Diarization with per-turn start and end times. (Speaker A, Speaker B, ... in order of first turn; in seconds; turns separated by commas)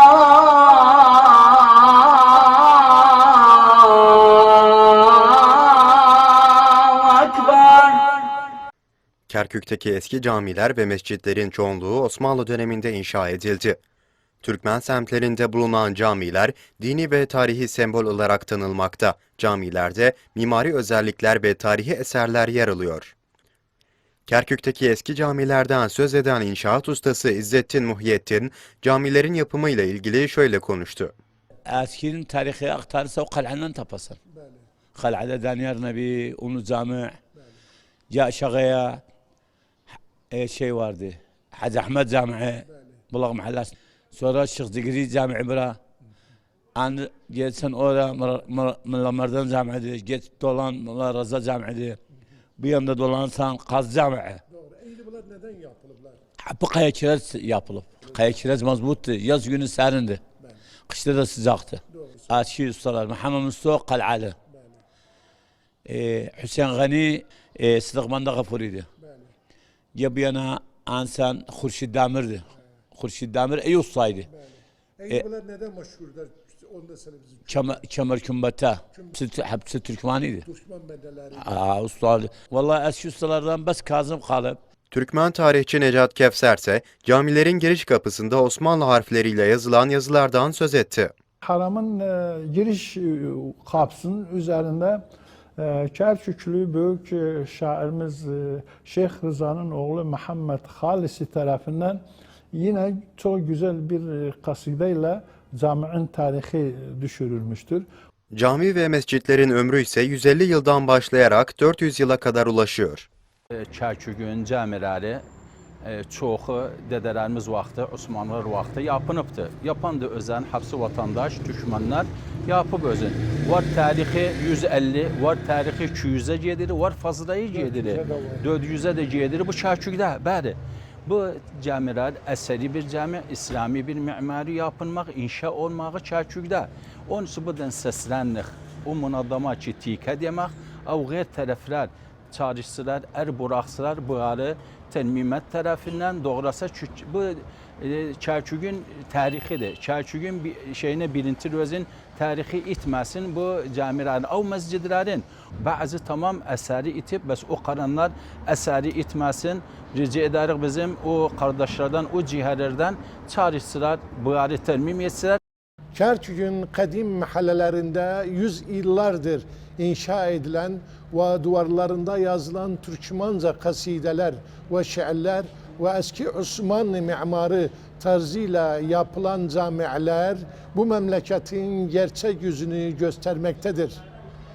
Speaker A: 5.1-6.0, Speaker A: 6.8-8.0, Speaker B: 9.3-13.8, Speaker B: 14.4-23.1, Speaker B: 24.2-31.1, Speaker C: 31.7-34.2, Speaker D: 34.3-34.6, Speaker C: 34.9-37.2, Speaker C: 38.1-39.0, Speaker C: 40.3-45.8, Speaker C: 46.8-52.0, Speaker C: 52.6-54.4, Speaker D: 54.5-56.2, Speaker C: 56.4-60.2, Speaker C: 60.9-64.3, Speaker D: 61.9-62.3, Speaker D: 64.5-64.8, Speaker C: 65.8-68.9, Speaker D: 69.0-69.3, Speaker C: 69.9-74.3, Speaker D: 74.3-77.8, Speaker C: 77.5-80.4, Speaker D: 80.4-81.5, Speaker C: 81.3-84.6, Speaker B: 84.9-91.1, Speaker E: 91.4-95.0, Speaker E: 95.6-102.0, Speaker E: 102.5-107.8, Speaker B: 108.3-113.1, Speaker F: 113.6-115.2, Speaker F: 115.8-165.4, Speaker D: 127.6-128.4, Speaker D: 165.9-184.0